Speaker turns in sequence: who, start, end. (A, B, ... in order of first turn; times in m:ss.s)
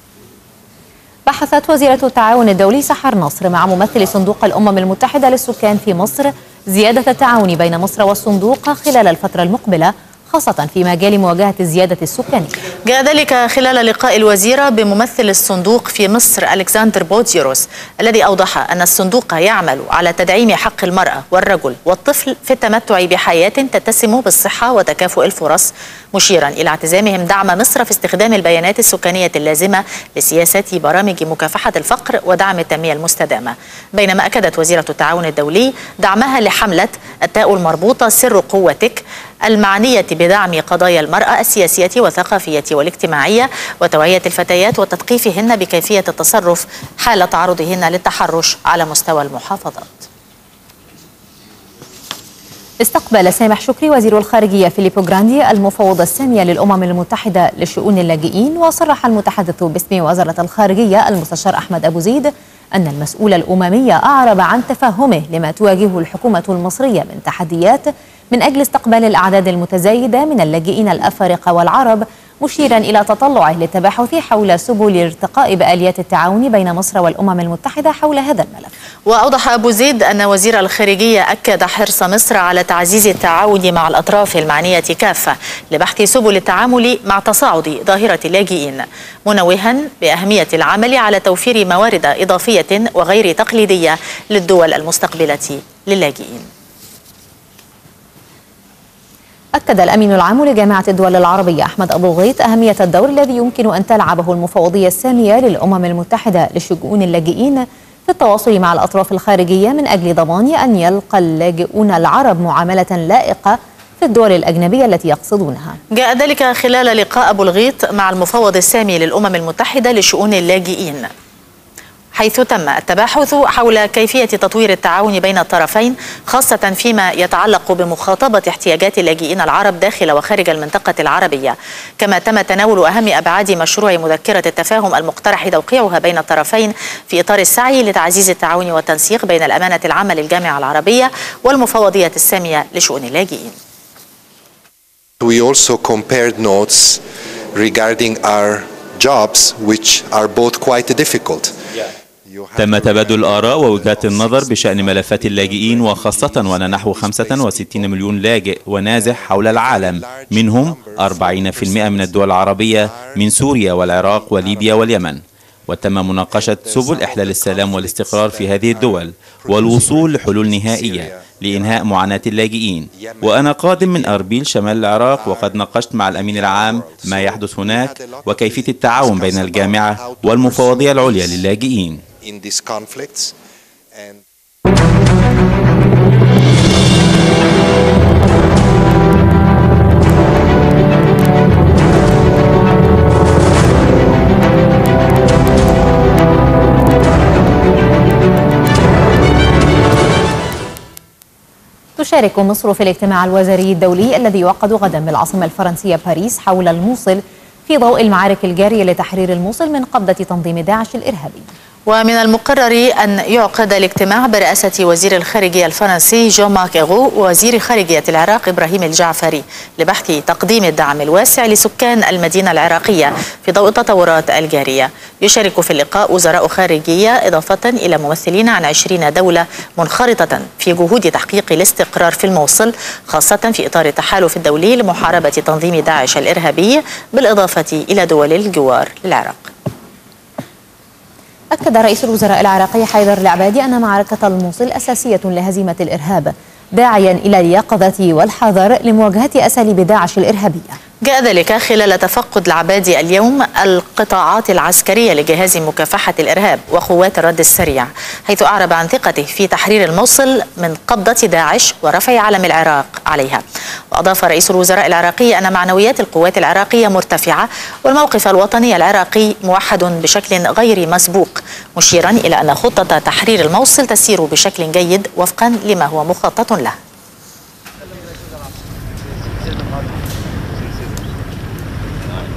0:01.3-0:12.6 A
0:12.9-0:50.1 B
0:52.8-1:18.7 A
1:19.1-1:36.5 B
1:39.5-1:55.8 A
1:55.9-2:01.1 B
2:02.1-2:23.5 B
2:25.2-2:27.0 C
2:27.5-2:31.6 C
2:32.3-2:38.1 C
2:32.6-3:02.0 D
2:38.9-2:45.0 C
2:46.1-2:52.2 C
2:52.9-2:54.3 C
2:55.0-3:01.5 C
3:02.2-3:03.3 C
3:04.0-3:04.2 C
3:22.0-3:31.5 A
3:31.9-3:59.5 B
4:01.5-4:10.8 A
4:11.0-4:36.8 B